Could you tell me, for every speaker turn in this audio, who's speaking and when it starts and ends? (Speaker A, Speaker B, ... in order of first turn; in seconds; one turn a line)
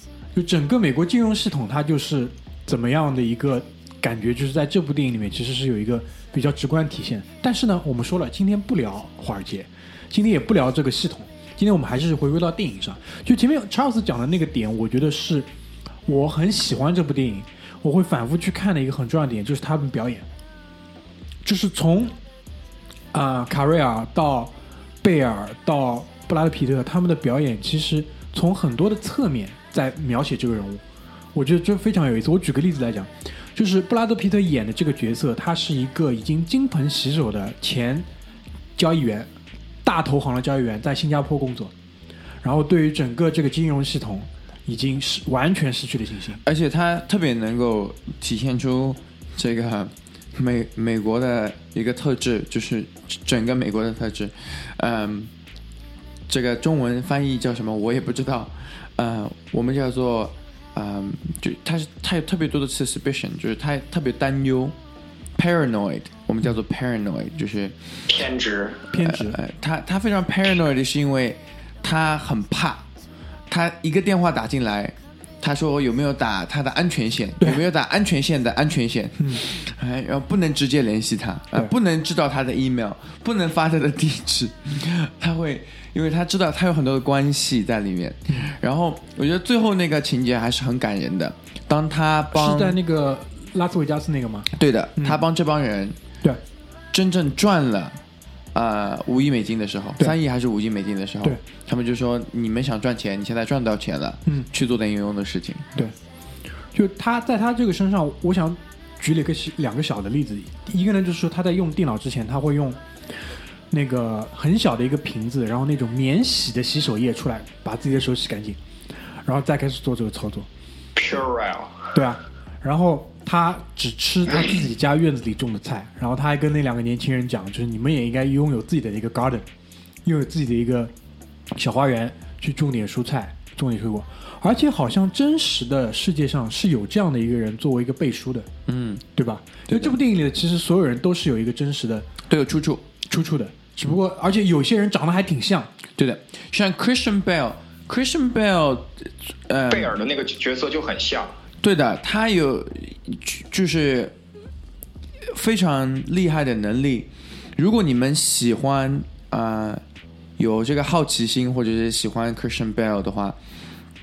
Speaker A: 0.3-15.5
Speaker A: 16.1-20.3
Speaker A: 21.4-22.2
Speaker A: 23.1-30.8
Speaker A: 31.3-38.1
Speaker A: 38.8-39.3
Speaker A: 39.8-41.7
Speaker A: 42.4-46.4
Speaker B: 46.4-55.3
Speaker B: 56.3-64.8
Speaker B: 65.3-68.1
Speaker C: 68.1-68.9
Speaker A: 68.9-69.4
Speaker B: 69.0-72.9
Speaker B: 73.5-92.8
Speaker A: 92.3-95.2
Speaker B: 94.5-96.0
Speaker B: 96.9-98.0
Speaker B: 98.5-105.7
Speaker A: 106.7-112.8
Speaker A: 113.7-118.6
Speaker A: 119.2-120.5
Speaker C: 121.0-121.9
Speaker A: 121.9-129.5
Speaker A: 130.1-130.9
Speaker A: 131.5-138.5
Speaker B: 138.7-139.0
Speaker A: 139.2-142.1
Speaker B: 139.7-139.9
Speaker B: 142.3-142.8
Speaker A: 143.1-145.7
Speaker B: 146.0-149.9
Speaker C: 149.7-151.4
Speaker B: 151.6-154.1
Speaker B: 155.2-159.8
Speaker B: 160.4-163.4